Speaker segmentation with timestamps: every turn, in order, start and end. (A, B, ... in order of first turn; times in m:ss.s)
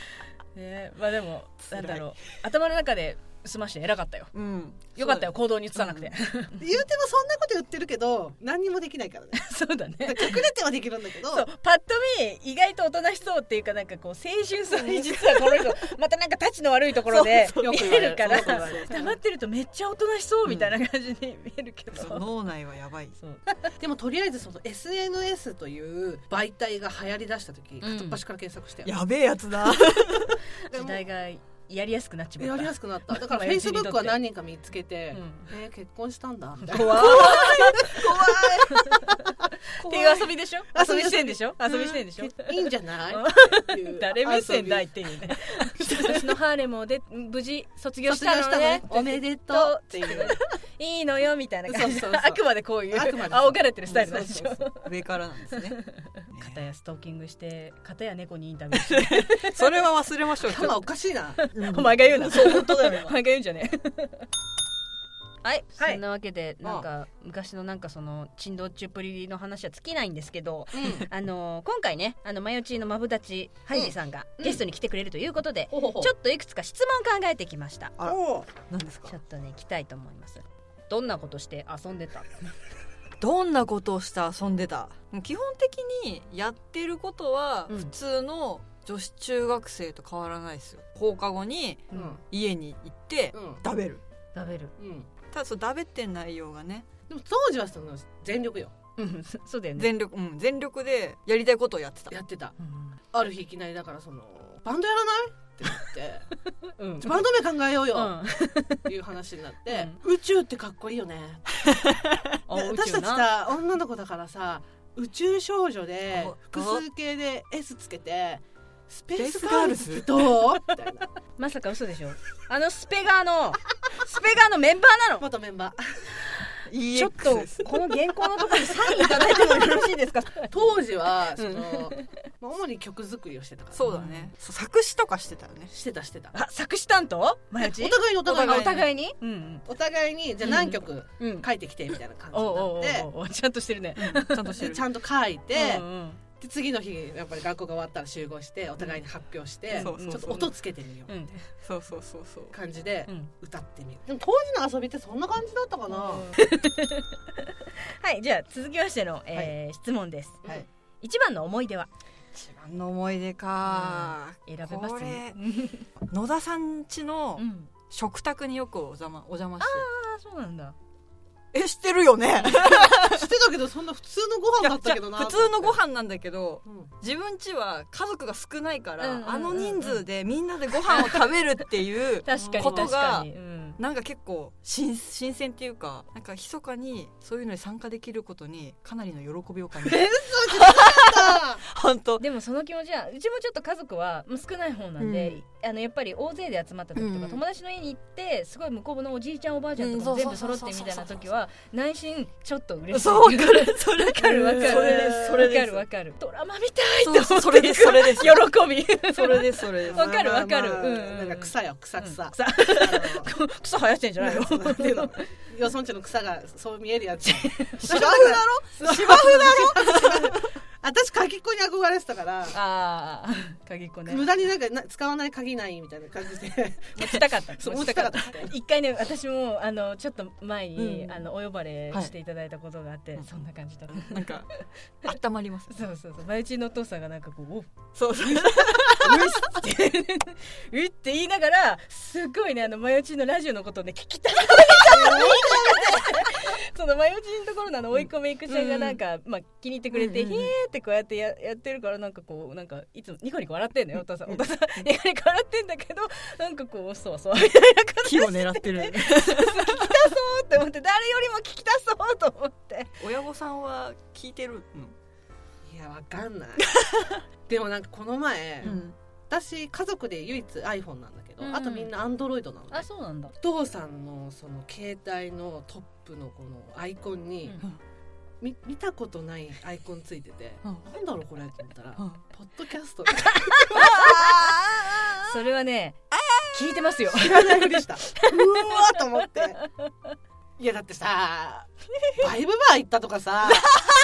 0:00.6-0:04.3 A
0:01.7-0:02.1 B
0:04.3-0:05.2 B
0:05.0-0:06.6 A
0:05.8-0:06.1 B
0:06.6-0:09.5 C
0:09.4-0:10.5 A
0:10.0-0:11.5 C
0:11.3-0:22.3 A
0:14.7-0:15.8 B
0:17.1-0:19.0 B
0:17.6-0:19.1 C
0:20.5-0:20.8 B
0:21.9-0:23.2 B
0:23.2-0:23.7 A
0:23.8-0:29.0 C
0:27.8-0:28.2 A
0:28.8-0:30.4 B
0:30.7-0:34.2 A
0:30.7-0:31.0 C
0:32.4-0:39.2 C
0:35.1-0:35.5 A
0:36.7-0:38.1 A
0:36.9-0:38.8 B
0:39.8-0:44.9 C
0:39.8-0:54.9 A
0:45.9-0:46.2 C
0:48.1-0:50.4 C
0:51.7-0:54.6 C
0:54.8-0:56.6 B
0:55.5-0:59.7 A
0:58.7-1:00.8 B
1:00.4-1:01.4 C
1:01.4-1:04.3 A
1:01.5-1:03.2 B
1:05.4-1:18.0 A
1:10.7-1:11.1 C
1:13.7-1:14.6 C
1:15.7-1:16.1 C
1:18.0-1:18.5 C
1:18.7-1:19.2 B
1:19.1-1:22.5 A
1:23.2-1:34.0 B
1:31.9-1:32.2 C
1:33.3-1:33.6 C
1:34.4-1:34.7 A
1:34.8-1:35.1 C
1:35.3-1:36.9 B
1:37.1-1:38.7 C
1:39.0-1:39.9 A
1:39.8-1:42.1 B
1:42.1-1:42.6 C
1:42.6-1:43.0 A
1:43.1-1:46.3 C
1:46.8-1:47.2 A
1:46.9-1:51.4 C
1:47.9-1:48.9 A
1:49.7-1:50.0 A
1:51.6-1:52.2 B
1:52.5-1:53.3 A
1:52.5-2:01.1 C
1:56.1-1:56.8 B
1:59.2-2:00.3 B
2:01.4-2:05.3 A
2:05.2-2:06.1 C
2:06.7-2:07.9 B
2:06.9-2:10.7 A
2:08.4-2:09.3 B
2:10.5-2:13.8 C
2:11.4-2:12.1 A
2:13.7-2:15.7 B
2:13.9-2:14.3 A
2:15.7-2:16.4 C
2:16.3-2:19.6 A
2:17.6-2:18.8 C
2:18.2-2:18.9 B
2:19.7-2:23.1 C
2:20.4-2:21.5 A
2:22.3-2:24.6 A
2:24.0-2:24.8 B
2:24.6-2:25.8 C
2:25.5-2:26.2 A
2:26.4-2:31.1 C
2:29.7-2:30.5 A
2:29.7-2:30.5 B
2:31.1-2:31.4 A
2:31.6-2:32.5 B
2:32.5-2:36.3 C
2:35.9-2:40.4 A
2:41.0-2:41.9 A
2:42.3-2:45.4 B
2:43.7-2:45.9 A
2:46.1-2:49.9 B
2:47.4-2:47.7 A
2:49.6-2:50.8 A
2:51.5-2:53.3 B
2:52.8-2:55.8 C
2:54.6-3:12.2 B
2:56.6-2:56.9 C
2:59.0-3:00.0 A
3:00.8-3:01.7 A
3:02.2-3:03.8 A
3:02.3-3:02.9 C
3:09.8-3:11.6 C
3:12.2-3:35.3 A
3:15.0-3:15.4 B
3:17.0-3:17.4 B
3:19.8-3:21.3 B
3:22.9-3:25.8 B
3:24.6-3:25.2 C
3:27.0-3:28.5 B
3:29.0-3:30.1 B
3:29.9-3:33.3 C
3:34.2-3:42.6 C
3:37.3-3:38.2 A
3:37.8-3:40.4 B
3:42.5-3:44.3 A
3:44.1-3:48.5 C
3:47.0-3:54.6 A
3:50.8-3:51.2 B
3:53.9-3:55.8 B
3:55.7-4:22.9 A
3:58.0-3:59.5 B
4:04.8-4:06.1 B
4:07.9-4:09.0 B
4:09.9-4:10.5 B
4:18.0-4:20.1 B
4:23.0-4:25.0 B
4:25.7-4:26.7 C
4:27.5-4:28.8 C
4:28.6-4:29.0 B
4:29.3-4:32.8 C
4:31.4-4:31.9 A
4:32.7-4:33.3 A
4:33.4-4:37.6 C
4:38.4-4:44.0 C
4:43.7-4:45.4 B
4:43.7-4:44.4 A
4:45.2-4:48.5 A
4:46.1-4:46.9 B
4:47.1-4:49.6 C
4:50.6-4:53.8 C